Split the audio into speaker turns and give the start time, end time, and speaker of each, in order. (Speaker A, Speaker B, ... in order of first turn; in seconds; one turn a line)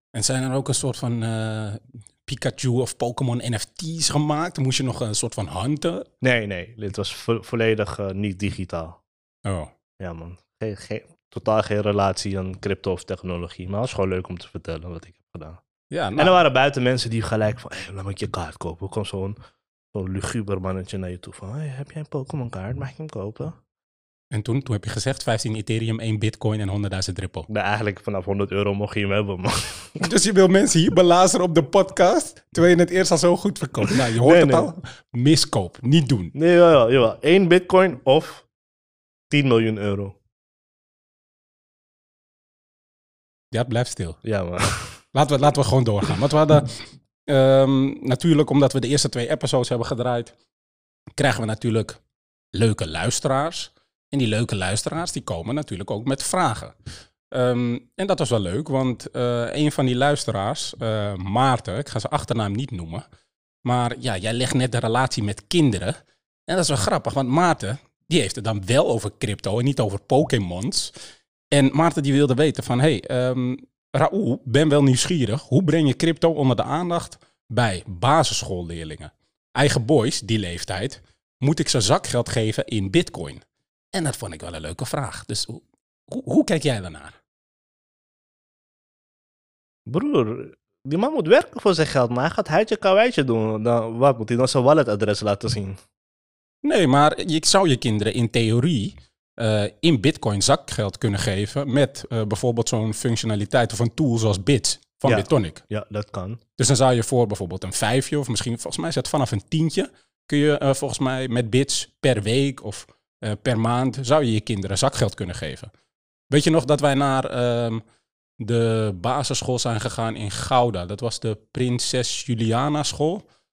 Speaker A: 0.1-6.1
Speaker B: 6.2-9.0
Speaker A: 9.4-9.7
Speaker B: 10.0-15.6
Speaker A: 15.9-16.3
Speaker B: 16.2-19.4
Speaker B: 19.9-23.6
Speaker A: 24.3-27.5
Speaker B: 27.5-30.1
Speaker A: 30.0-36.3
Speaker B: 33.9-34.7
Speaker B: 36.3-38.5
Speaker B: 39.3-40.2
Speaker A: 43.5-44.2
Speaker B: 44.2-45.0
Speaker A: 45.1-50.3
Speaker A: 51.1-52.0
Speaker A: 52.5-56.7
Speaker A: 57.3-63.0
Speaker A: 63.6-70.9
Speaker A: 71.5-83.4
Speaker A: 83.9-87.2
Speaker B: 89.9-95.8
Speaker A: 96.6-105.6
Speaker B: 105.0-106.4
Speaker A: 106.6-115.7
Speaker A: 116.3-117.8
Speaker A: 118.4-123.2